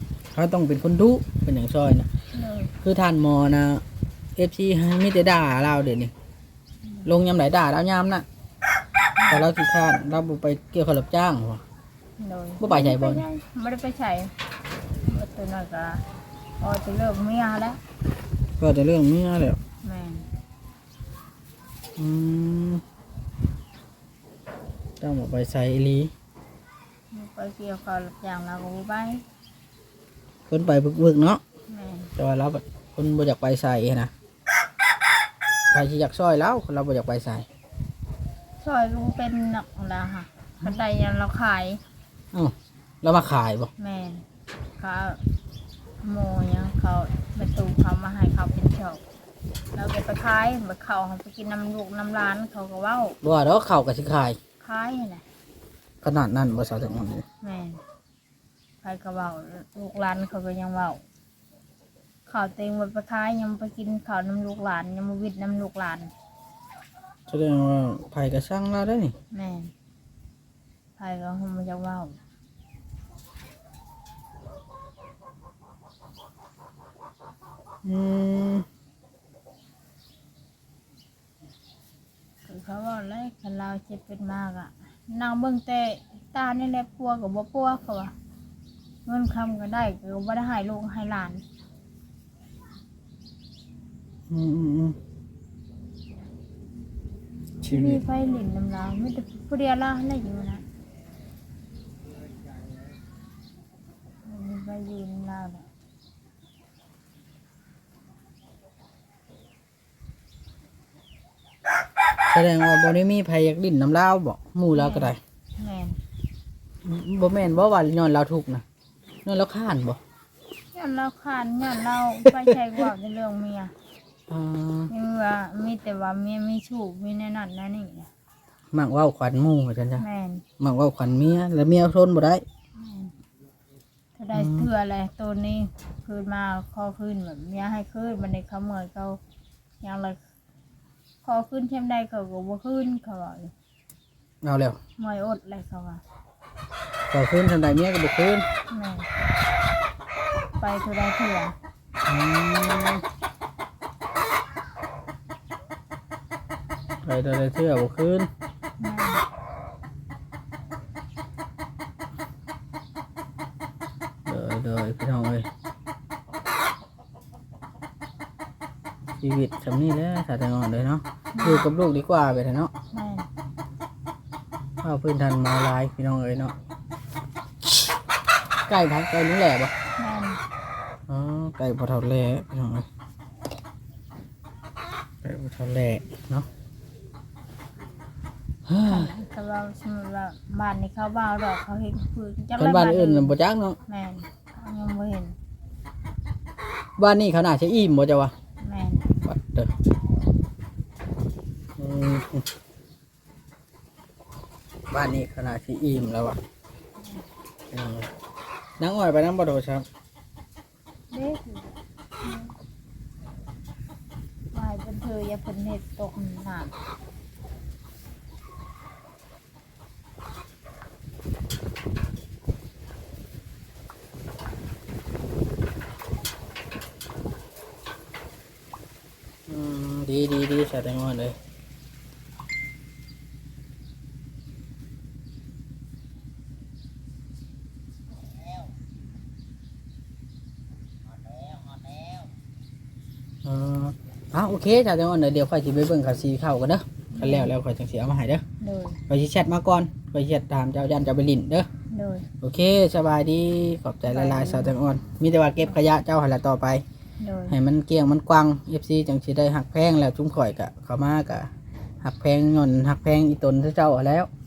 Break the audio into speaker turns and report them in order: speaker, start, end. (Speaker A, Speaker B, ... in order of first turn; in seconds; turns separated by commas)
Speaker A: 0.3-2.1, Speaker B: 2.3-2.7, Speaker A: 2.8-3.8, Speaker A: 4.4-6.1, Speaker A: 7.0-8.2, Speaker B: 9.2-9.4, Speaker A: 9.3-11.6, Speaker B: 12.2-14.3, Speaker A: 12.6-13.2, Speaker B: 15.0-16.0, Speaker B: 16.6-17.8, Speaker A: 18.6-19.6, Speaker B: 19.8-20.3, Speaker A: 22.0-22.8, Speaker A: 25.0-26.1, Speaker B: 27.1-29.2, Speaker A: 30.5-31.4, Speaker B: 31.7-32.1, Speaker A: 32.2-34.1, Speaker A: 35.7-37.5, Speaker B: 38.6-41.8, Speaker A: 42.3-43.7, Speaker B: 43.8-44.2, Speaker B: 44.8-45.2, Speaker B: 46.0-49.0, Speaker B: 49.7-53.2, Speaker A: 53.2-54.4, Speaker B: 54.6-55.2, Speaker A: 56.0-57.2, Speaker B: 57.4-57.8, Speaker B: 58.8-61.0, Speaker B: 62.3-66.1, Speaker A: 67.3-69.1, Speaker B: 69.3-69.7, Speaker B: 71.0-72.2, Speaker A: 77.8-78.7, Speaker B: 82.4-88.1, Speaker B: 89.0-91.4, Speaker A: 94.3-95.0, Speaker B: 97.6-100.6, Speaker B: 104.2-105.7, Speaker A: 112.3-115.2, Speaker B: 114.7-116.0, Speaker A: 116.8-118.6, Speaker A: 119.2-120.0, Speaker B: 120.7-123.7, Speaker A: 124.3-124.9, Speaker B: 124.9-128.1, Speaker A: 128.7-130.0, Speaker B: 130.0-130.4, Speaker A: 130.6-132.4, Speaker B: 132.7-133.1, Speaker B: 134.1-139.2, Speaker A: 134.3-134.7, Speaker B: 139.8-140.2, Speaker B: 141.2-143.5, Speaker A: 144.4-144.8, Speaker B: 145.0-146.0, Speaker A: 147.1-148.4, Speaker B: 148.7-149.1, Speaker B: 150.6-151.6, Speaker A: 152.1-153.0, Speaker A: 157.0-158.3, Speaker B: 158.8-159.2, Speaker A: 164.2-165.5, Speaker A: 169.2-172.7, Speaker B: 171.3-171.7, Speaker B: 172.9-173.3, Speaker A: 174.8-176.5, Speaker A: 178.7-179.7, Speaker B: 180.0-180.4, Speaker A: 181.1-182.8, Speaker A: 185.2-186.5, Speaker A: 188.7-189.1, Speaker B: 188.8-193.3, Speaker A: 192.6-193.8, Speaker B: 193.9-195.3, Speaker A: 197.0-198.3, Speaker B: 198.6-199.1, Speaker A: 199.2-199.7, Speaker A: 201.8-202.5, Speaker A: 204.9-206.4, Speaker B: 207.0-207.2, Speaker A: 207.7-208.1, Speaker A: 208.8-209.8, Speaker B: 211.1-212.6, Speaker B: 214.5-216.8, Speaker A: 229.5-231.3, Speaker A: 243.4-248.4, Speaker B: 247.1-247.5, Speaker B: 248.6-249.0, Speaker A: 249.1-251.7, Speaker B: 251.9-252.3, Speaker A: 252.4-256.8, Speaker B: 254.1-254.7, Speaker B: 257.2-257.6, Speaker A: 257.5-261.5, Speaker A: 262.0-264.3